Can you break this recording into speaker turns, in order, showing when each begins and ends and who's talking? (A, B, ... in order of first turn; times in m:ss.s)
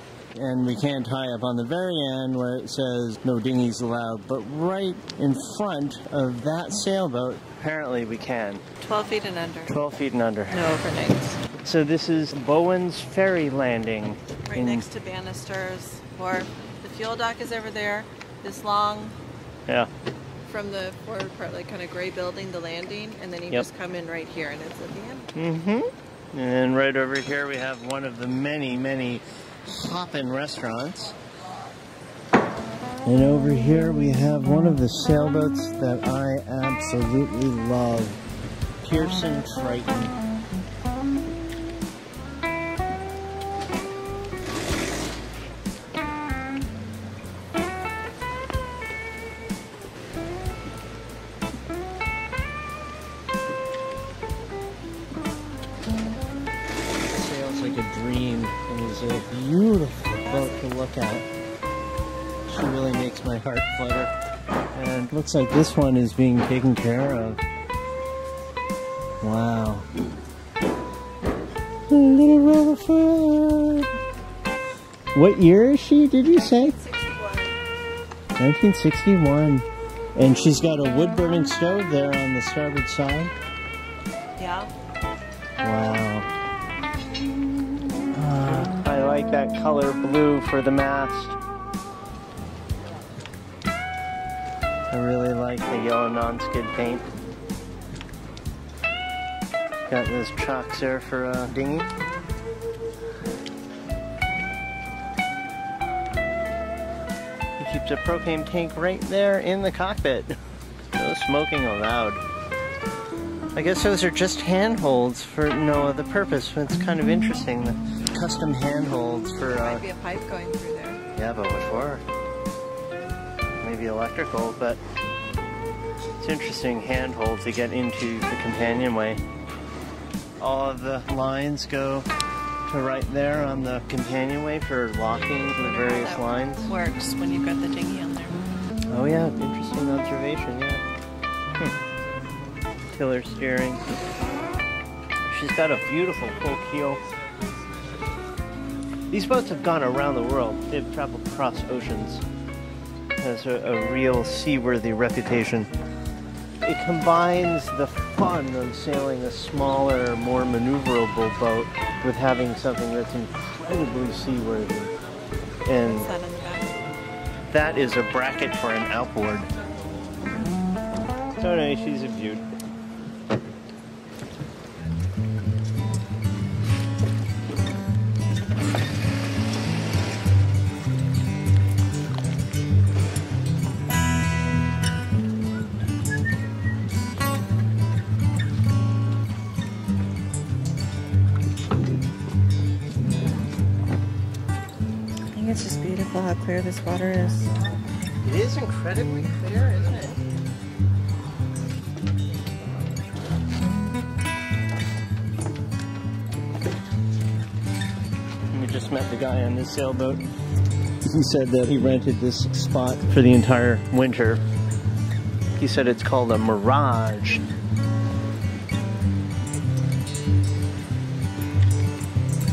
0:00.4-0:08.6 A
0:08.8-0:09.8 B
0:09.7-0:10.7 A
0:10.5-0:11.4 B
0:11.6-0:14.9 A
0:14.5-0:19.2 B
0:20.5-0:25.3 B
0:25.4-0:31.2 A
0:33.0-0:38.2 A
0:38.8-0:40.2 A
0:57.1-1:01.2 A
1:00.3-1:00.7 B
1:02.5-1:04.1 A
1:04.8-1:07.4 A
1:09.2-1:09.9 A
1:11.9-1:13.9 A
1:15.1-1:16.8 A
1:16.3-1:17.6 B
1:18.4-1:23.3 A
1:24.4-1:24.7 B
1:25.6-1:26.3 A
1:28.1-1:31.4 A
1:34.9-1:37.1 A
1:39.9-1:41.9 A
1:47.6-1:50.4 A
1:51.0-1:52.2 A
1:53.6-1:59.8 A
1:59.5-2:01.0 B
2:01.2-2:02.0 A
2:03.6-2:04.8 A
2:06.2-2:09.2 A
2:10.4-2:12.1 A
2:12.7-2:16.7 A
2:15.6-2:18.4 B
2:18.9-2:20.8 A
2:22.9-2:23.9 A
2:25.3-2:27.0 A
2:29.1-2:32.2 A
2:33.2-2:35.7 A
2:36.6-2:44.9 A
2:45.7-2:46.1 A
2:45.8-2:46.9 B
2:47.5-2:49.5 A
2:51.4-2:52.4 A
3:15.3-3:17.5 B
3:18.2-3:20.2 A
3:28.5-3:30.2 A
3:31.0-3:34.4 A
3:35.6-3:37.4 A